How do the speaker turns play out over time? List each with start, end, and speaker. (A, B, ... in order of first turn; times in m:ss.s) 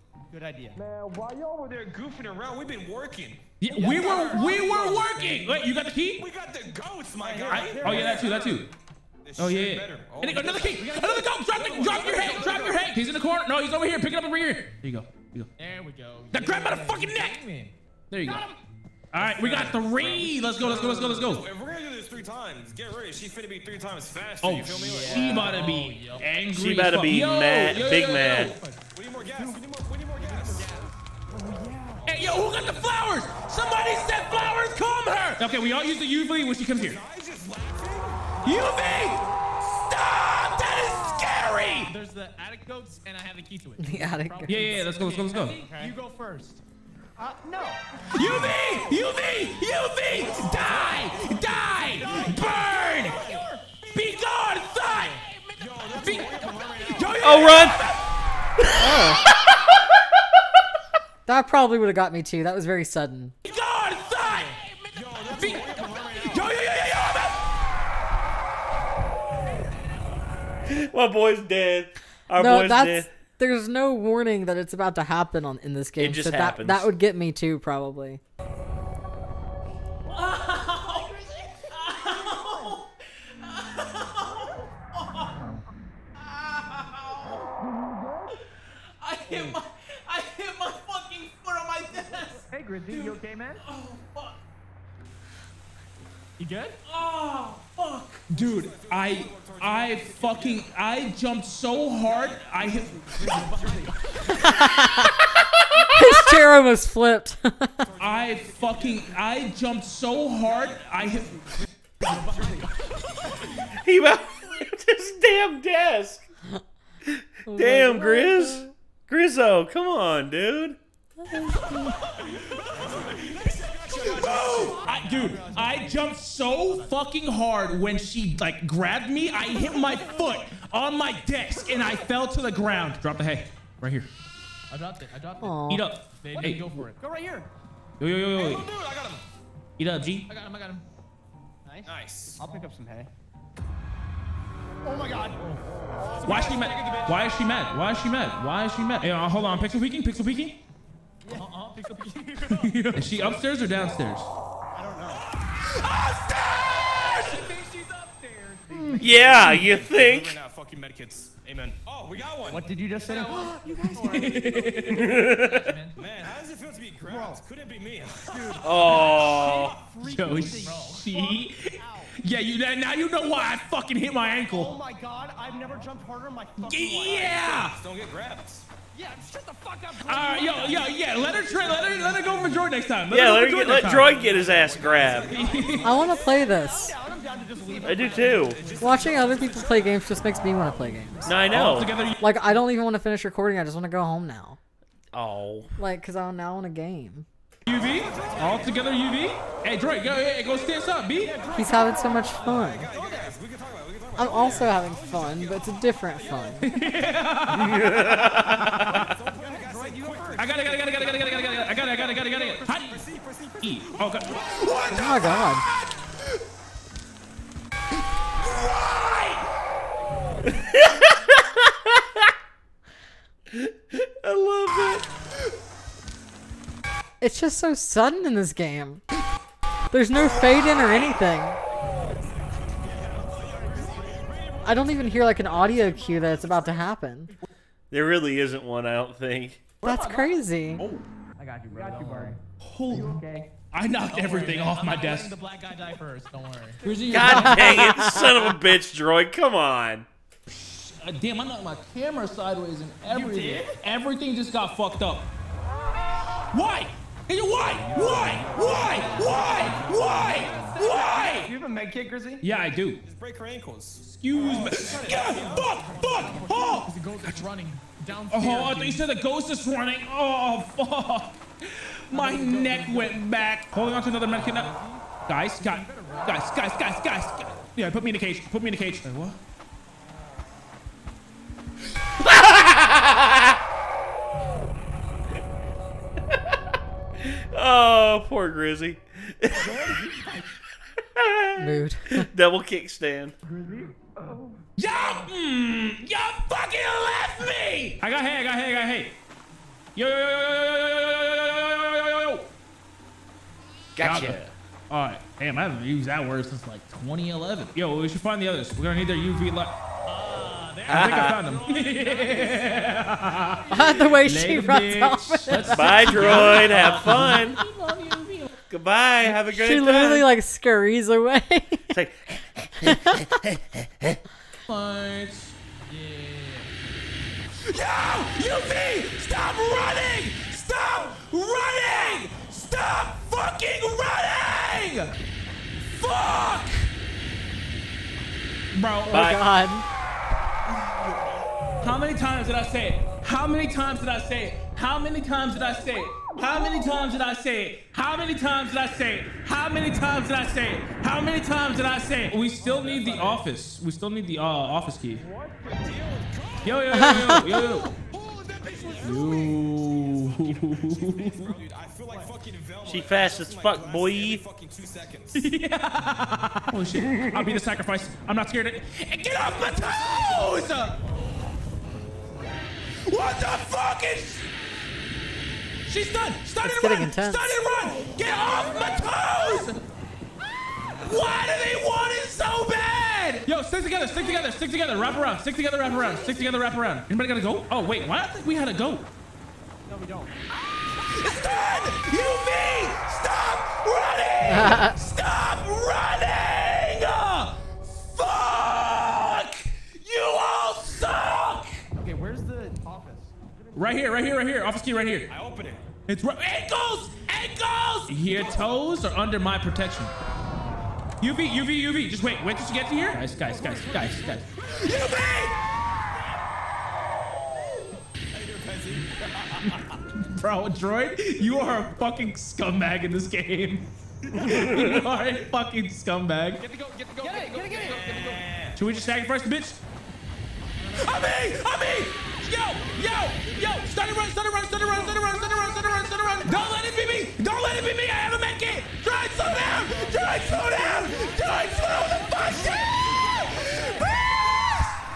0:00.3-0:00.8 A
0:00.7-0:04.6 B
0:03.6-0:06.3 C
0:03.7-0:05.6 A
0:03.9-0:04.6 D
0:06.2-0:08.7 B
0:07.2-0:08.6 A
0:07.5-0:08.7 C
0:09.2-0:13.0 B
0:09.4-0:15.5 C
0:15.6-0:17.7 D
0:16.3-0:17.4 C
0:18.1-0:18.5 C
0:18.2-0:18.6 A
0:19.1-0:21.4 C
0:19.1-0:20.4 D
0:20.6-0:25.6 B
0:24.4-0:28.6 C
0:24.8-0:26.3 D
0:26.5-0:28.5 E
0:27.9-0:28.8 D
0:28.9-0:30.9 B
0:29.2-0:29.6 A
0:30.2-0:32.1 A
0:32.0-0:37.0 C
0:36.7-0:38.9 B
0:38.4-0:38.8 A
0:38.4-0:41.9 C
0:41.9-0:46.6 D
0:43.8-0:44.8 F
0:44.5-0:45.6 C
0:45.5-0:46.0 A
0:47.2-0:47.8 A
0:48.1-0:53.2 C
0:50.1-0:53.4 B
0:51.9-0:55.1 A
0:53.9-0:55.3 C
0:55.2-0:57.1 D
0:55.6-0:57.7 B
0:55.8-0:56.3 C
0:56.8-0:58.2 C
0:57.2-0:57.8 E
0:58.6-0:59.6 E
0:58.7-0:59.2 F
1:01.2-1:03.3 F
1:03.4-1:04.6 C
1:04.2-1:05.4 D
1:04.9-1:06.6 B
1:05.2-1:07.5 C
1:10.7-1:13.1 E
1:12.3-1:18.2 F
1:16.0-1:16.9 E
1:20.1-1:25.5 C
1:21.8-1:22.8 A
1:26.2-1:27.5 C
1:27.7-1:28.2 B
1:29.0-1:34.4 C
1:29.3-1:29.6 A
1:32.2-1:33.6 A
1:36.4-1:36.8 D
1:36.8-1:43.0 C
1:38.3-1:40.7 B
1:42.0-1:44.7 B
1:42.7-1:44.3 A
1:43.4-1:43.9 D
1:44.4-1:45.1 F
1:45.2-1:46.1 E
1:45.9-1:47.9 F
1:47.8-1:49.3 B
1:48.0-1:51.4 C
1:50.6-1:52.6 A
1:52.0-1:52.6 D
1:53.8-1:56.2 E
1:57.0-2:00.8 E
1:57.4-1:58.7 F
2:01.2-2:02.0 F
2:02.2-2:04.9 B
2:03.8-2:14.1 C
2:04.1-2:06.9 A
2:05.0-2:05.3 D
2:14.7-2:17.0 D
2:15.4-2:15.9 F
2:15.7-2:16.6 C
2:16.3-2:17.5 A
2:18.0-2:18.7 C
2:18.3-2:19.2 B
2:19.8-2:20.3 C
2:20.3-2:20.8 D
2:21.6-2:23.1 A
2:21.8-2:22.4 B
2:24.8-2:27.1 A
2:26.2-2:27.3 D
2:26.2-2:30.6 C
2:31.2-2:31.5 A
2:31.3-2:33.4 D
2:32.5-2:34.3 C
2:34.7-2:35.3 A
2:35.7-2:37.4 C
2:37.0-2:39.5 D
2:38.7-2:39.5 A
2:38.9-2:42.7 B
2:39.0-2:40.4 E
2:42.5-2:44.9 A
2:43.0-2:46.0 D
2:43.9-2:45.1 C
2:44.9-2:45.7 E
2:45.9-2:49.6 B
2:47.0-2:47.4 A
2:48.2-2:52.2 A
2:48.6-2:49.8 E
2:50.0-2:54.8 C
2:50.1-2:51.1 D
2:54.4-2:57.7 A
2:56.6-2:57.8 C
2:57.5-2:58.7 B
2:58.9-3:02.5 A
3:00.0-3:04.2 C
3:03.1-3:05.3 E
3:03.9-3:06.4 B
3:04.2-3:09.7 A
3:05.3-3:06.0 C
3:05.8-3:07.0 F
3:07.8-3:10.0 B
3:07.8-3:08.6 E
3:08.8-3:11.3 F
3:11.2-3:11.9 E
3:11.5-3:12.2 C
3:12.2-3:14.6 F
3:15.1-3:15.8 E
3:15.8-3:17.2 F
3:17.6-3:21.3 C
3:17.7-3:18.9 B
3:18.1-3:18.7 A
3:21.2-3:23.4 A
3:21.4-3:22.2 D
3:21.5-3:22.9 F
3:22.4-3:27.1 B
3:24.2-3:26.7 F
3:26.6-3:29.0 C
3:27.5-3:29.1 E
3:28.9-3:35.4 B
3:29.2-3:32.6 A
3:30.4-3:33.0 C
3:33.6-3:36.2 C
3:34.9-3:35.6 F
3:38.4-3:39.4 C
3:40.6-3:42.3 E
3:43.5-3:45.1 E
3:47.2-3:49.0 F
3:49.9-3:51.6 F
3:52.7-3:56.6 B
3:53.7-3:54.2 A
3:54.6-3:57.3 F
3:57.9-3:59.7 E
3:59.8-4:00.8 F
3:59.8-4:01.1 C
4:01.4-4:03.5 A
4:01.7-4:02.4 D
4:02.6-4:05.4 C
4:04.0-4:06.8 D
4:06.8-4:07.3 A
4:06.8-4:07.9 C
4:07.1-4:10.1 E
4:07.2-4:08.3 F
4:10.5-4:15.3 C
4:13.1-4:13.8 A
4:16.5-4:21.5 C
4:17.7-4:21.3 D
4:17.9-4:22.4 A
4:22.4-4:23.0 C
4:23.0-4:25.7 B
4:24.0-4:27.4 C
4:24.3-4:26.9 A
4:26.0-4:29.1 D
4:28.3-4:34.7 C
4:32.1-4:33.2 D
4:32.2-4:32.9 A
4:34.3-4:35.0 D
4:34.4-4:35.0 A
4:35.2-4:39.4 C
4:35.6-4:36.3 D
4:35.8-4:36.5 A
4:42.2-4:43.4 E
4:46.3-4:46.6 E
4:47.2-4:49.9 E
4:49.5-4:50.2 A
4:51.0-4:53.4 E
4:51.6-4:52.3 F
4:53.4-4:53.9 A
4:54.8-4:59.2 C
4:59.9-5:02.5 C
5:04.0-5:04.5 E
5:04.0-5:04.4 C
5:04.9-5:09.8 C
5:10.0-5:14.2 D
5:10.9-5:18.5 C
5:10.9-5:11.4 E
5:13.7-5:16.3 F
5:15.7-5:17.6 E
5:16.5-5:17.1 D
5:18.7-5:20.3 E
5:19.4-5:21.9 F
5:21.9-5:24.2 E
5:22.8-5:23.3 F
5:24.7-5:25.5 C
5:25.9-5:26.7 D
5:27.6-5:35.1 C
5:35.8-5:36.9 C
5:38.7-5:39.2 C
5:39.0-5:39.8 F
5:39.1-5:39.4 E
5:40.7-5:41.1 C
5:41.8-5:55.2 C
5:52.6-5:53.4 D
5:55.1-6:05.5 B
5:56.6-5:57.9 C
5:56.9-5:57.6 F
5:58.6-5:59.0 A
5:59.0-6:01.6 C
6:02.1-6:02.3 A
6:02.8-6:04.4 E
6:05.3-6:11.0 C
6:07.0-6:07.5 E
6:09.3-6:10.8 B
6:13.0-6:14.5 C
6:15.8-6:19.8 C
6:16.6-6:17.6 F
6:18.0-6:19.5 B
6:20.8-6:29.1 C
6:29.9-6:30.4 A
6:30.6-6:41.8 C
6:34.4-6:35.0 F
6:41.9-6:43.8 A
6:43.7-6:45.3 C
6:45.3-6:45.9 B
6:46.1-6:50.1 C
6:48.2-6:48.8 B
6:51.2-6:55.6 C
6:53.4-6:55.5 B
6:58.3-6:59.9 B
6:59.6-7:06.6 C
7:04.3-7:05.0 E
7:06.6-7:08.5 A
7:06.6-7:08.0 D
7:07.8-7:08.8 B
7:08.7-7:09.8 C
7:10.9-7:25.0 C
7:19.5-7:24.7 B
7:20.2-7:22.7 A